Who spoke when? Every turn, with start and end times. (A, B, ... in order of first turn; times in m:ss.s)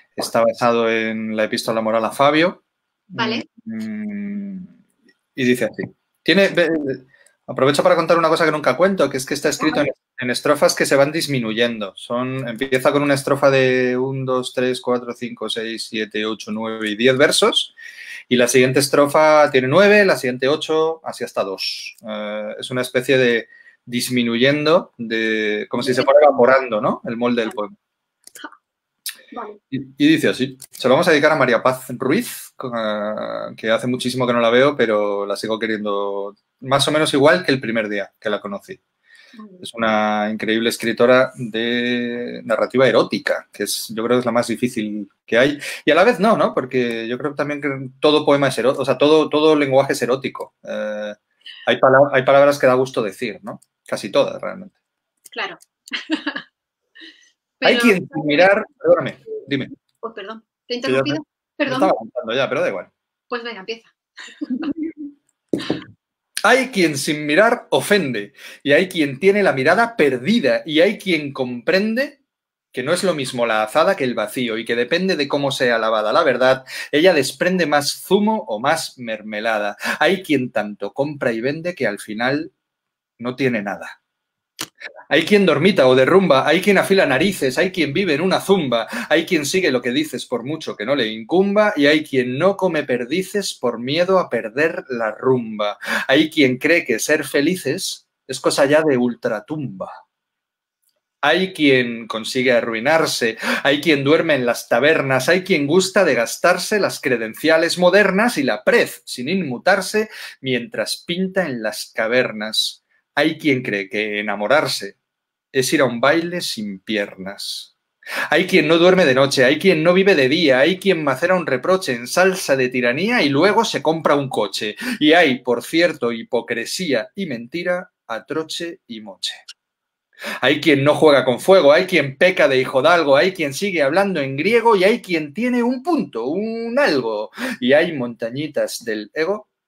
0:00.2-0:04.7 A
0:03.2-0:03.5 B
0:05.4-0:17.7 A
0:09.6-0:09.9 B
0:18.3-0:27.8 A
0:25.8-0:26.1 B
0:29.3-0:29.6 B
0:29.7-0:38.8 A
0:39.4-0:39.6 B
0:39.6-0:54.7 A
0:55.3-0:56.4 B
0:57.6-0:58.5 B
0:57.6-0:59.7 A
1:00.0-1:01.9 B
1:00.9-1:02.9 A
1:03.3-1:04.7 B
1:06.4-1:12.2 A
1:12.7-1:22.5 A
1:23.2-1:24.0 A
1:25.1-1:40.0 A
1:41.2-1:55.0 A
1:55.5-1:57.7 A
1:58.3-2:09.4 A
2:10.4-2:19.5 A